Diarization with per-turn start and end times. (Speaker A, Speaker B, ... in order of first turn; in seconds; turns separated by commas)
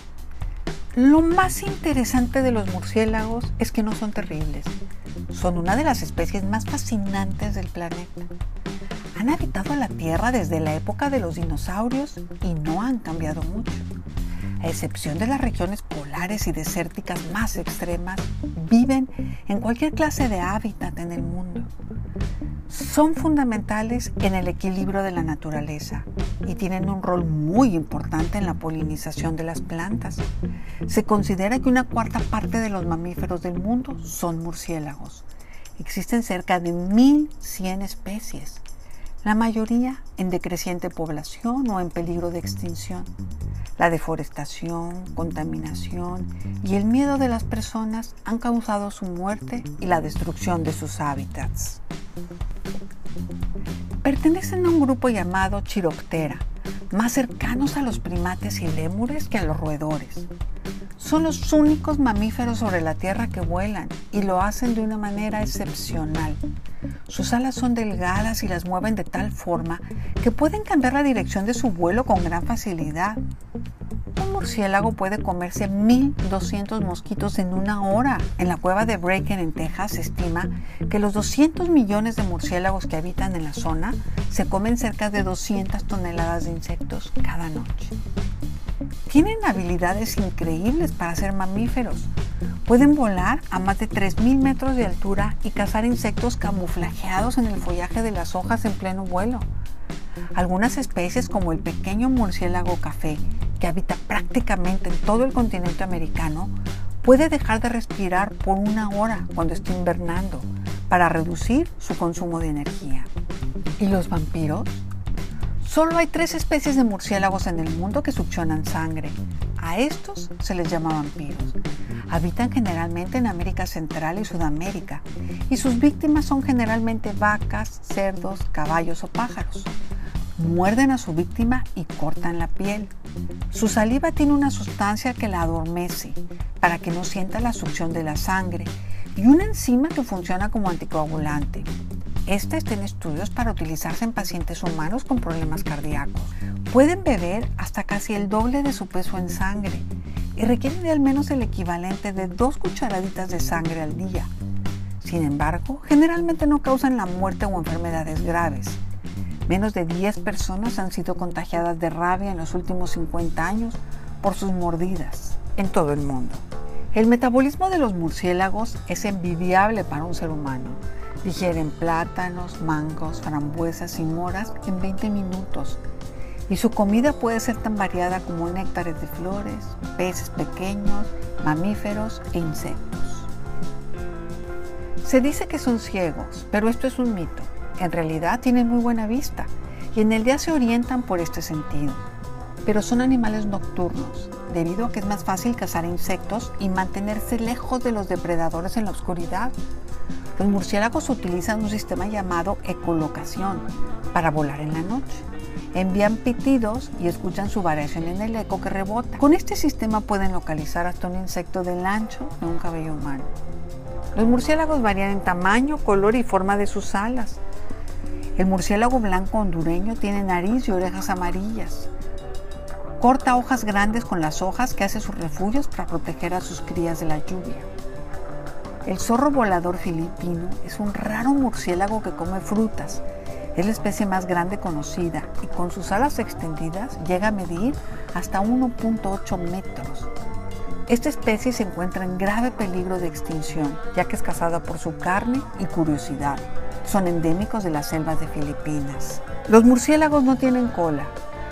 Speaker A: 0.9-4.8, Speaker A: 5.3-8.3, Speaker A: 9.2-13.9, Speaker A: 14.6-21.7, Speaker A: 22.7-30.3, Speaker A: 30.8-35.2, Speaker A: 35.8-38.6, Speaker A: 39.2-43.1, Speaker A: 43.8-51.8, Speaker A: 54.0-60.3, Speaker A: 61.0-66.4, Speaker A: 67.1-73.2, Speaker A: 74.1-88.0, Speaker A: 89.1-92.1, Speaker A: 92.7-99.5, Speaker A: 100.3-113.1, Speaker A: 113.8-114.8, Speaker A: 115.6-121.6, Speaker A: 122.1-129.7, Speaker A: 130.4-132.9, Speaker A: 133.5-141.7, Speaker A: 142.2-154.3, Speaker A: 155.0-158.8, Speaker A: 159.5-175.8, Speaker A: 176.5-183.3, Speaker A: 185.0-192.0, Speaker A: 192.6-199.5, Speaker A: 200.4-213.3, Speaker A: 214.1-217.4, Speaker A: 218.4-221.9, Speaker A: 223.0-227.7, Speaker A: 228.8-233.0, Speaker A: 233.5-240.1, Speaker A: 240.9-251.1